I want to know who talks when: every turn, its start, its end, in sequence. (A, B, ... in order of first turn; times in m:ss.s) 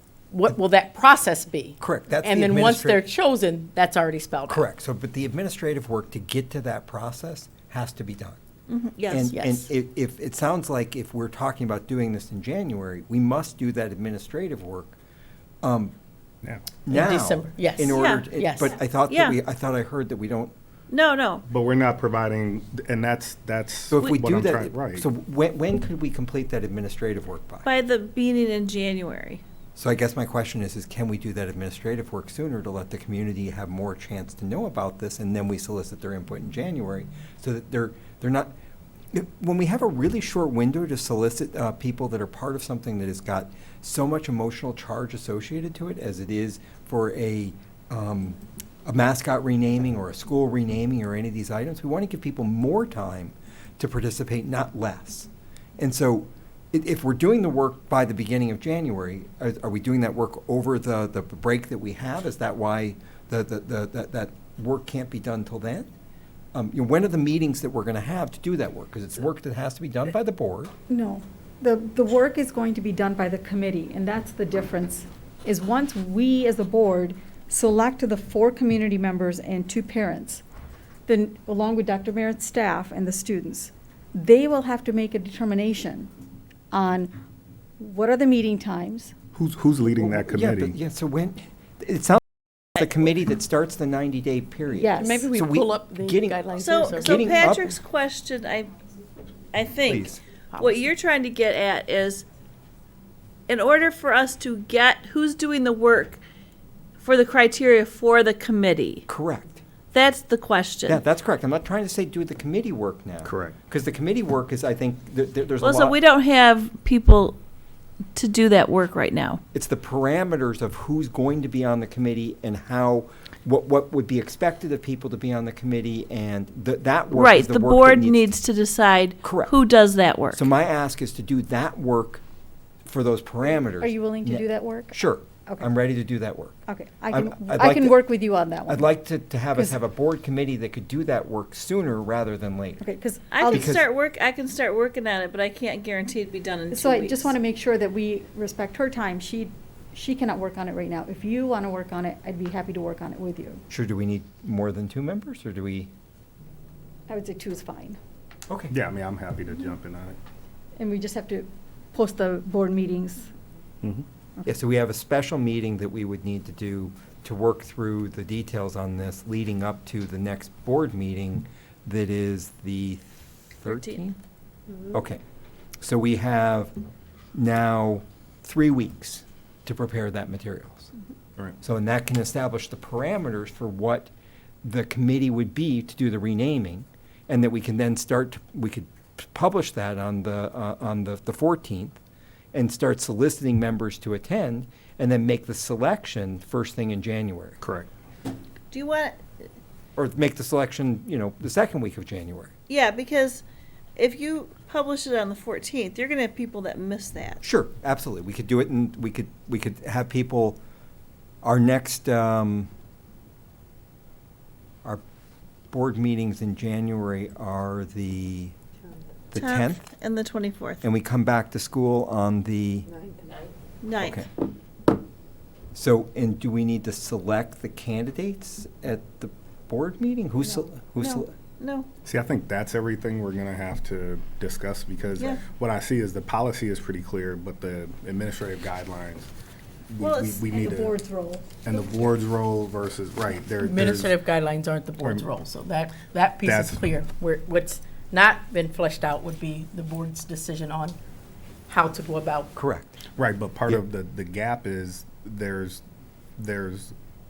0:00.3-0:04.6 A
0:01.8-0:03.0 B
0:04.5-0:08.4 B
0:08.7-0:09.3 C
0:09.1-0:15.0 B
0:09.3-0:09.7 A
0:15.6-0:15.9 B
0:16.8-0:20.5 B
0:16.9-0:18.7 A
0:17.9-0:18.3 C
0:19.0-0:19.4 C
0:20.9-0:21.4 C
0:21.5-0:25.0 D
0:23.9-0:27.7 B
0:27.6-0:29.4 C
0:29.8-0:38.5 B
0:39.1-1:05.9 B
1:06.5-1:10.7 B
1:10.9-1:20.4 E
1:21.0-1:26.1 E
1:26.7-1:27.1 E
1:27.8-1:29.1 E
1:29.3-1:30.8 D
1:30.1-1:37.8 B
1:34.8-1:35.3 E
1:34.9-1:37.5 A
1:36.5-1:38.7 C
1:39.5-1:42.2 C
1:39.8-1:40.2 B
1:40.5-1:40.8 A
1:43.5-1:46.2 C
1:47.0-1:49.0 C
1:49.1-1:49.6 B
1:49.9-1:51.0 C
1:50.8-1:56.0 B
1:53.2-1:53.6 D
1:55.6-1:57.4 C
1:58.1-1:59.4 C
1:59.5-2:08.2 B
2:07.1-2:10.5 C
2:09.2-2:09.5 B
2:10.3-2:12.2 B
2:12.8-2:18.0 B
2:13.8-2:15.7 E
2:16.7-2:18.9 E
2:18.7-2:22.8 B
2:22.8-2:23.8 E
2:23.3-2:27.3 C
2:23.5-2:23.8 B
2:26.7-2:33.6 E
2:33.7-2:35.9 B
2:37.1-2:38.0 E
2:38.5-2:38.7 B
2:38.7-2:40.2 D
2:40.8-2:43.3 E
2:44.4-2:54.2 B
2:53.7-2:54.0 C
2:54.9-2:55.2 B
2:55.8-2:56.7 B
2:57.3-3:00.9 B
3:01.6-3:04.1 B
3:04.6-3:12.0 B
3:12.5-3:17.6 B
3:17.6-3:17.9 D
3:18.7-3:19.2 C
3:20.0-3:22.5 B
3:22.7-3:23.4 C
3:24.0-3:27.4 C
3:27.4-3:30.6 B
3:31.4-3:32.7 B
3:35.7-3:38.5 B
3:39.3-3:39.8 B
3:39.3-3:40.8 C
3:40.8-3:42.9 B
3:43.8-3:44.2 C
3:44.0-3:44.3 B
3:45.7-3:51.3 B
3:51.0-3:51.9 C
3:52.0-3:59.3 D
3:59.9-4:01.0 D
4:00.0-4:00.4 C
4:00.4-4:01.6 E
4:01.6-4:04.2 D
4:03.6-4:11.0 A
4:05.0-4:05.3 D
4:06.4-4:06.9 D
4:11.7-4:12.5 A
4:12.5-4:12.9 B
4:13.2-4:15.8 D
4:16.4-4:16.9 D